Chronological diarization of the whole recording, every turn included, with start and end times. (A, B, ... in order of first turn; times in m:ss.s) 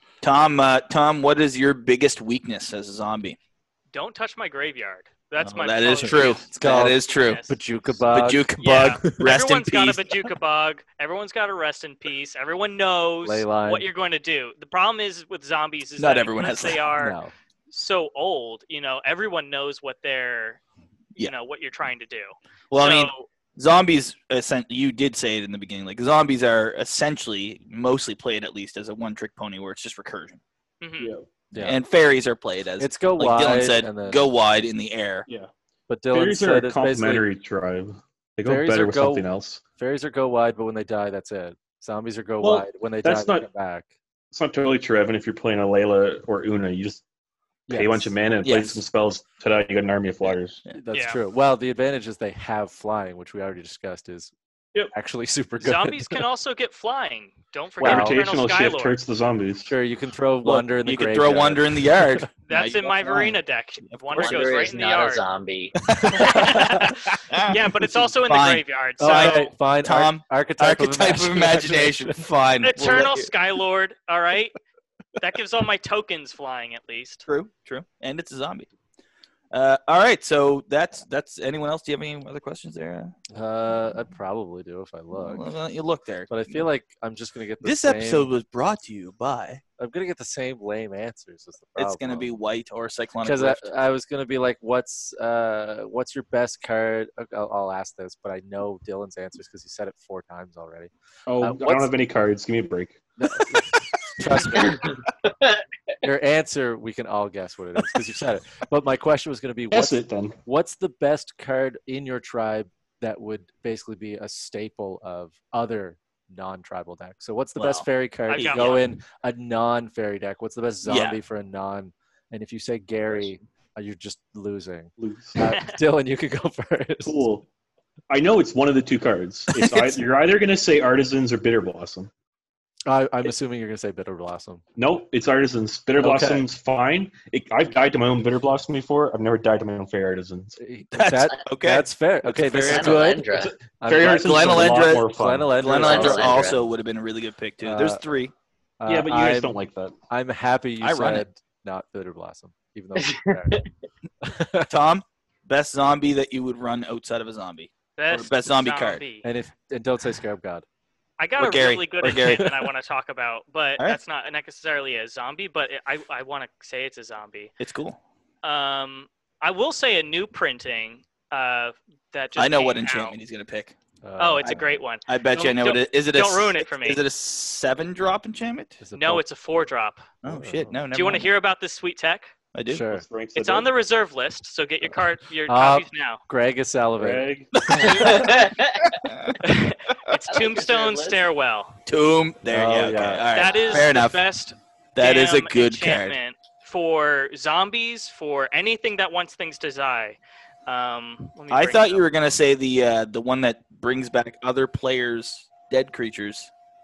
0:00.2-0:03.4 A
0:03.9-0:07.6 B
0:05.4-0:07.4 A
0:06.1-0:08.5 C
0:08.1-0:10.1 A
0:08.6-0:17.2 B
0:13.2-0:13.8 C
0:16.0-0:16.8 A
0:17.0-0:17.3 C
0:17.7-0:20.6 B
0:21.2-0:23.3 B
0:22.7-0:30.4 A
0:30.8-0:31.1 B
0:31.0-0:31.2 D
0:31.5-0:31.8 C
0:31.6-0:35.2 A
0:32.8-0:34.2 C
0:35.9-0:37.2 C
0:36.1-0:39.6 D
0:38.4-0:43.9 C
0:42.4-0:43.5 D
0:44.3-0:47.0 D
0:47.7-0:50.6 D
0:47.7-0:48.1 C
0:48.4-0:48.8 A
0:50.7-0:54.3 C
0:50.9-0:51.2 B
0:54.9-0:56.2 C
0:55.6-0:59.0 B
0:57.8-0:58.2 C
0:57.8-0:59.7 D
0:59.7-1:02.3 C
1:00.4-1:04.6 A
1:02.5-1:05.2 B
1:04.2-1:05.8 E
1:05.9-1:13.3 A
1:06.1-1:09.5 B
1:06.2-1:06.8 C
1:09.0-1:12.2 C
1:12.6-1:14.6 B
1:15.2-1:17.2 B
1:17.3-1:18.7 A
1:19.5-1:23.1 A
1:23.3-1:25.5 C
1:25.2-1:26.6 A
1:26.3-1:28.3 C
1:27.6-1:29.6 A
1:29.8-1:32.3 C
1:31.8-1:33.7 A
1:33.2-1:41.9 C
1:41.3-1:43.0 D
1:43.2-1:45.0 C
1:44.6-1:44.9 E
1:46.0-2:07.2 C
1:49.7-1:50.4 D
1:58.3-1:58.9 B
1:58.4-1:58.7 A
2:00.8-2:01.2 A
2:05.0-2:05.4 D
2:05.5-2:05.8 B
2:07.0-2:07.4 D
2:08.1-2:12.1 D
2:09.6-2:09.9 A
2:12.8-2:14.6 C
2:14.8-2:20.6 D
2:16.0-2:16.5 C
2:20.6-2:26.5 C
2:20.9-2:23.1 A
2:22.5-2:23.6 E
2:23.3-2:25.6 D
2:24.0-2:28.3 A
2:25.7-2:26.6 E
2:27.6-2:28.0 C
2:28.8-2:29.6 C
2:28.8-2:29.9 D
2:30.1-2:33.6 C
2:30.8-2:31.3 A
2:33.0-2:33.7 E
2:34.2-2:34.7 C
2:34.7-2:39.0 A
2:38.0-2:39.3 B
2:39.2-2:40.6 C
2:41.2-2:47.5 B
2:41.4-2:42.5 A
2:42.0-2:42.7 C
2:47.6-2:48.0 A
2:48.4-2:53.2 B
2:52.4-2:53.7 A
2:54.0-2:54.8 C
2:54.2-2:57.0 B
2:54.4-2:58.8 A
2:58.8-2:59.2 C
2:59.0-3:00.0 B
3:00.2-3:01.3 A
3:00.2-3:00.8 C
3:00.9-3:02.3 B
3:02.5-3:02.8 A
3:02.7-3:03.0 C
3:02.9-3:03.7 D
3:03.3-3:06.2 B
3:05.5-3:07.3 C
3:07.0-3:07.7 D
3:07.6-3:09.5 A
3:07.8-3:09.0 E
3:09.4-3:11.8 B
3:10.3-3:11.2 E
3:11.8-3:14.2 A
3:12.5-3:13.4 C
3:13.3-3:22.0 B
3:13.5-3:13.8 E
3:15.0-3:16.2 A
3:21.5-3:26.5 A